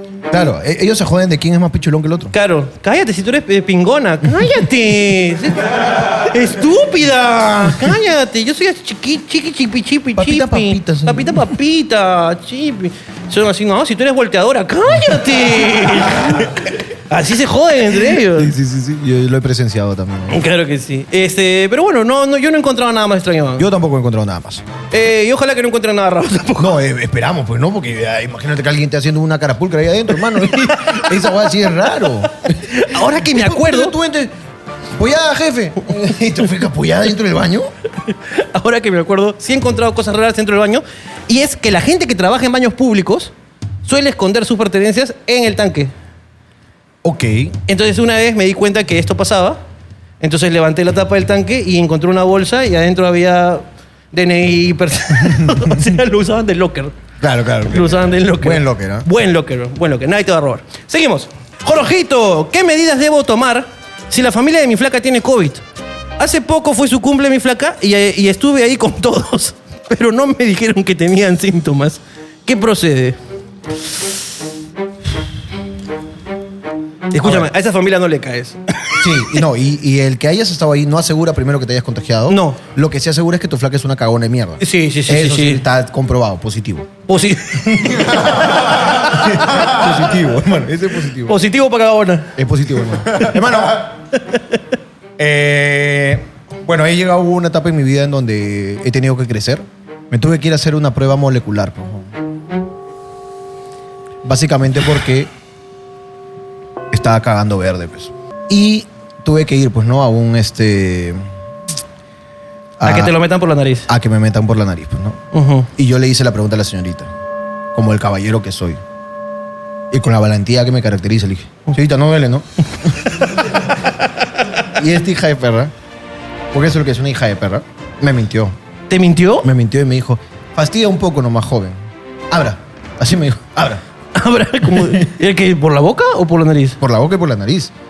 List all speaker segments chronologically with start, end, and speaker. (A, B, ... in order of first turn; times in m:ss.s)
0:00.3-0:02.3 A
0:02.3-0:18.5 B
0:10.2-0:11.5 A
0:18.1-0:20.4 A
0:20.3-0:23.7 B
0:23.6-0:24.6 A
0:24.9-0:26.8 B
0:26.6-0:34.3 A
0:32.6-0:34.0 B
0:35.0-0:37.7 A
0:38.1-0:43.3 B
0:43.8-0:45.9 B
0:47.0-0:47.6 A
0:47.7-0:49.6 B
0:50.2-0:56.9 B
0:55.4-0:55.8 A
0:57.2-0:59.1 A
0:57.6-1:05.6 B
1:06.2-1:13.2 B
1:17.1-1:19.0 B
1:17.2-1:17.5 A
1:19.0-1:27.0 A
1:22.3-1:22.6 B
1:24.6-1:25.6 B
1:27.1-1:28.4 B
1:27.8-1:31.4 A
1:31.2-1:32.3 B
1:32.4-1:34.0 A
1:35.2-1:42.1 A
1:44.2-1:45.3 A
1:46.9-1:51.2 A
1:52.8-1:53.2 A
1:52.8-1:53.9 B
1:53.9-1:55.2 A
1:55.3-1:55.7 B
1:55.7-1:57.1 A
1:57.7-1:58.8 A
1:59.9-2:03.1 A
2:04.7-2:05.7 A
2:06.5-2:08.6 A
2:08.9-2:09.5 B
2:09.4-2:11.8 A
2:12.3-2:13.8 A
2:14.1-2:16.8 B
2:16.8-2:17.7 A